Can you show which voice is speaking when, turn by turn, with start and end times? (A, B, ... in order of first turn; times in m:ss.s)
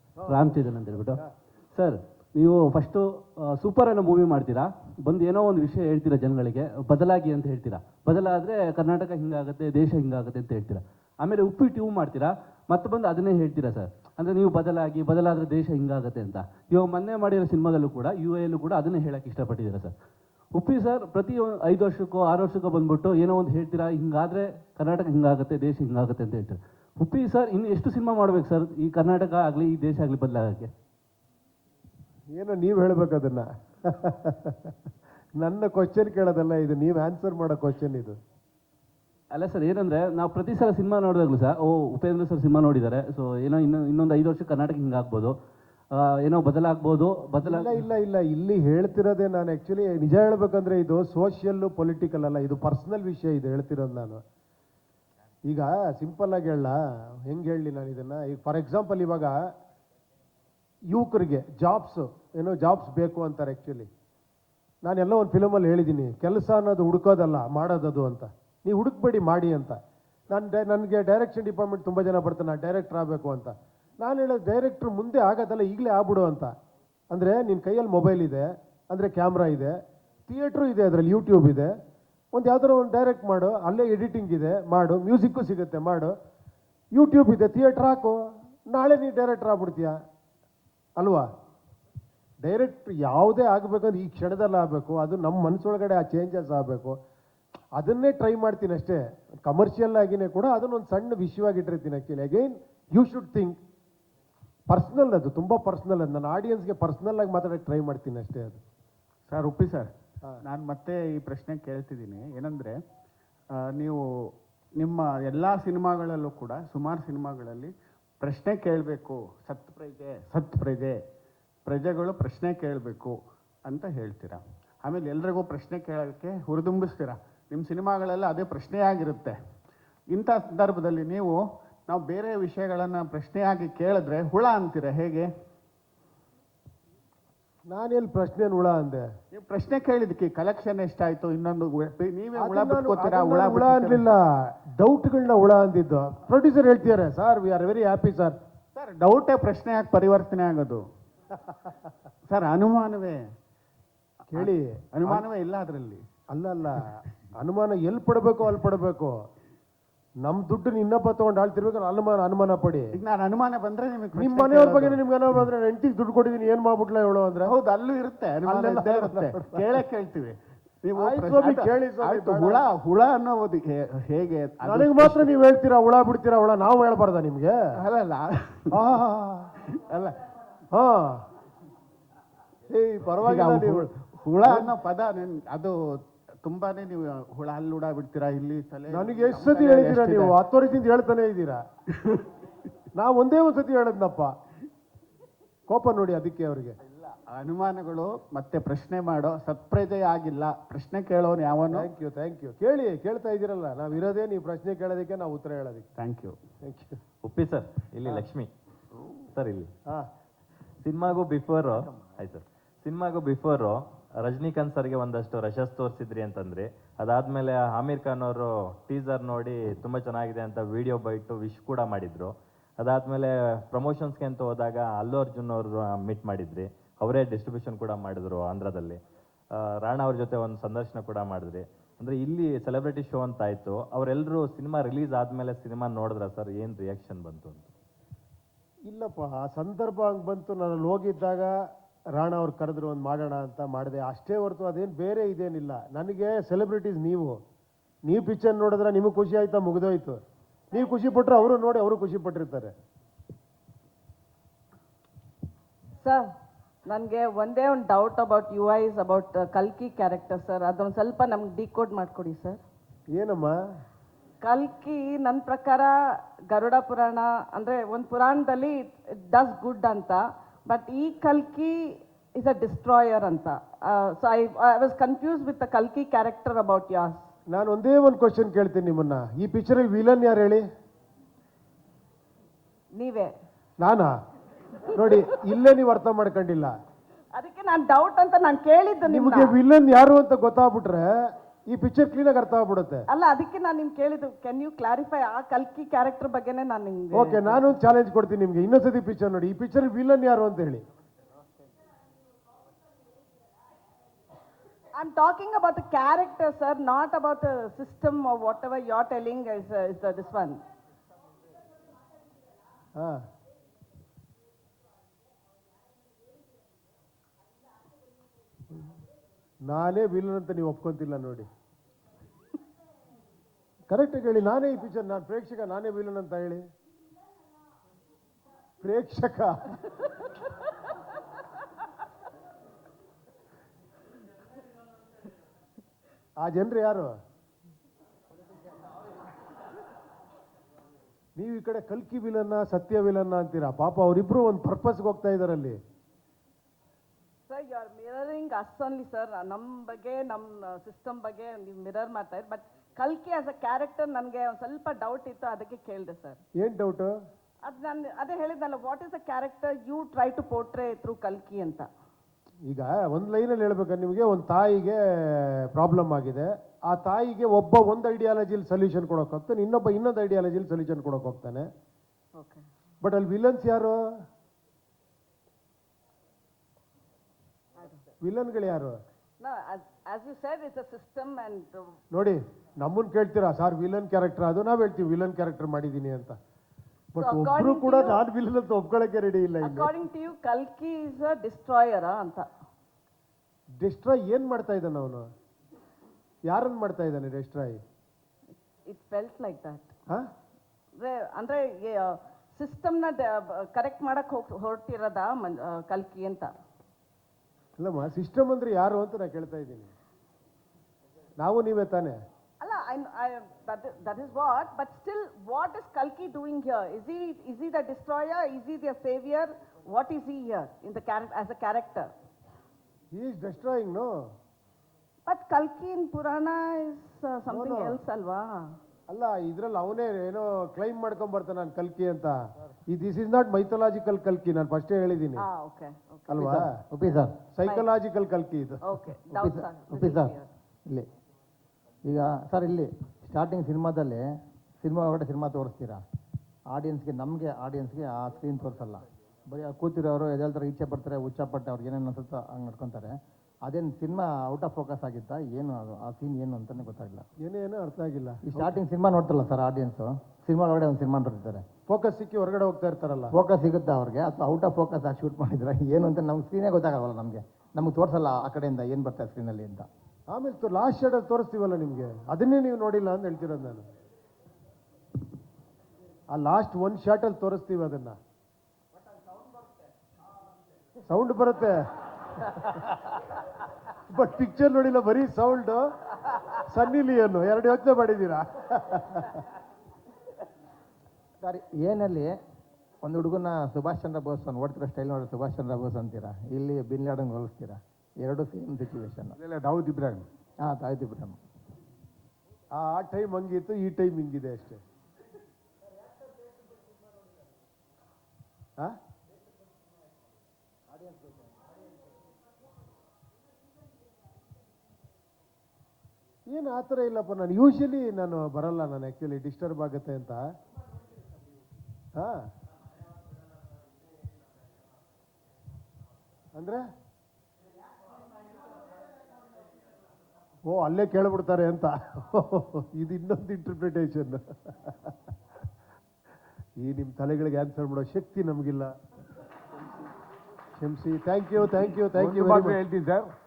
0:00.2-0:00.5 A
0:00.2-0:19.9 B
0:20.5-0:30.7 B
0:32.3-0:34.7 A
0:35.4-0:38.2 A
0:39.3-0:45.4 B
0:45.9-0:47.8 B
0:47.4-0:54.2 A
0:55.5-0:56.8 A
0:57.3-0:59.3 A
1:00.9-1:03.9 A
1:04.8-1:09.8 A
1:10.3-1:16.5 A
1:17.1-1:21.7 A
1:22.3-1:26.1 A
1:27.0-1:30.0 A
1:31.0-1:31.3 A
1:32.4-1:37.0 A
1:37.8-1:43.6 A
1:44.7-1:48.6 A
1:49.3-1:49.9 C
1:50.4-1:52.8 C
1:53.5-1:54.0 C
1:54.8-2:01.0 C
2:01.7-2:09.4 C
2:10.1-2:15.3 C
2:17.7-2:19.0 A
2:19.3-2:24.1 C
2:22.4-2:28.4 A
2:28.8-2:30.8 C
2:32.3-2:33.2 C
2:34.3-2:35.3 A
2:34.4-2:36.0 C
2:36.3-2:39.2 A
2:40.3-2:43.0 A
2:43.0-2:45.5 C
2:44.1-2:47.6 A
2:47.4-2:55.3 C
2:48.4-2:49.7 A
2:51.0-2:52.7 A
2:54.6-2:57.5 A
2:57.8-2:58.8 C
2:58.7-2:59.5 A
3:00.7-3:01.2 A
3:02.7-3:03.9 A
3:03.2-3:05.8 C
3:04.4-3:04.8 A
3:06.4-3:10.4 C
3:08.9-3:11.6 A
3:13.0-3:14.3 A
3:15.7-3:16.8 A
3:17.3-3:21.9 C
3:21.7-3:25.9 A
3:26.0-3:26.4 C
3:26.6-3:27.0 A
3:27.2-3:28.5 D
3:29.3-3:29.7 D
3:30.8-3:57.7 D
3:58.9-4:01.5 A
4:02.2-4:07.4 A
4:08.1-4:10.2 A
4:10.7-4:12.7 A
4:16.9-4:22.6 E
4:23.1-4:23.5 A
4:24.4-4:25.9 E
4:26.5-4:37.3 E
4:37.5-4:40.6 A
4:42.9-4:43.3 E
4:43.8-4:44.1 A
4:44.9-4:46.7 A
4:47.4-4:49.6 E
4:49.1-4:51.1 A
4:51.7-4:53.0 A
4:53.1-4:57.6 E
4:57.2-5:00.8 A
5:05.0-5:10.6 E
5:19.7-5:21.5 A
5:23.9-5:26.6 A
5:28.8-5:30.0 A
5:36.4-5:37.1 A
5:41.4-5:45.8 A
5:47.5-5:56.4 E
5:56.6-5:57.1 A
5:57.6-6:01.9 E
6:02.7-6:11.7 A
6:12.4-6:12.6 E
6:13.0-6:14.0 A
6:18.2-6:18.9 A
6:19.4-6:21.8 E
6:22.1-6:26.4 A
6:27.1-6:29.9 A
6:27.2-6:28.2 E
6:29.6-6:32.5 E
6:33.8-6:35.3 A
6:36.5-6:37.8 A
6:38.9-6:39.9 E
6:41.0-6:46.6 E
6:47.8-6:49.9 A
6:51.4-6:52.2 A
6:52.6-7:02.1 E
7:03.1-7:04.1 A
7:05.3-7:08.7 E
7:07.5-7:08.0 A
7:09.1-7:12.4 A
7:12.9-7:15.4 A
7:15.4-7:16.5 E
7:16.3-7:16.7 A
7:16.4-7:17.4 F
7:17.5-7:18.8 A
7:18.8-7:20.5 E
7:19.3-7:20.4 F
7:22.0-7:26.0 F
7:26.7-7:37.3 F
7:37.4-7:38.7 A
7:38.4-7:41.7 F
7:41.9-7:43.4 A
7:43.3-7:49.9 F
7:50.3-7:53.9 A
7:56.3-7:58.2 A
8:01.1-8:01.8 A
8:02.4-8:02.9 A
8:04.1-8:05.9 A
8:06.6-8:09.4 A
8:11.4-8:12.4 F
8:13.0-8:19.4 F
8:19.4-8:20.3 G
8:20.6-8:21.4 F
8:22.7-8:24.8 A
8:36.5-8:40.4 A
8:42.2-8:42.5 A
8:46.6-8:46.8 A
8:50.7-8:55.2 A
8:56.8-8:58.9 A
9:00.8-9:02.8 A
9:02.1-9:03.3 G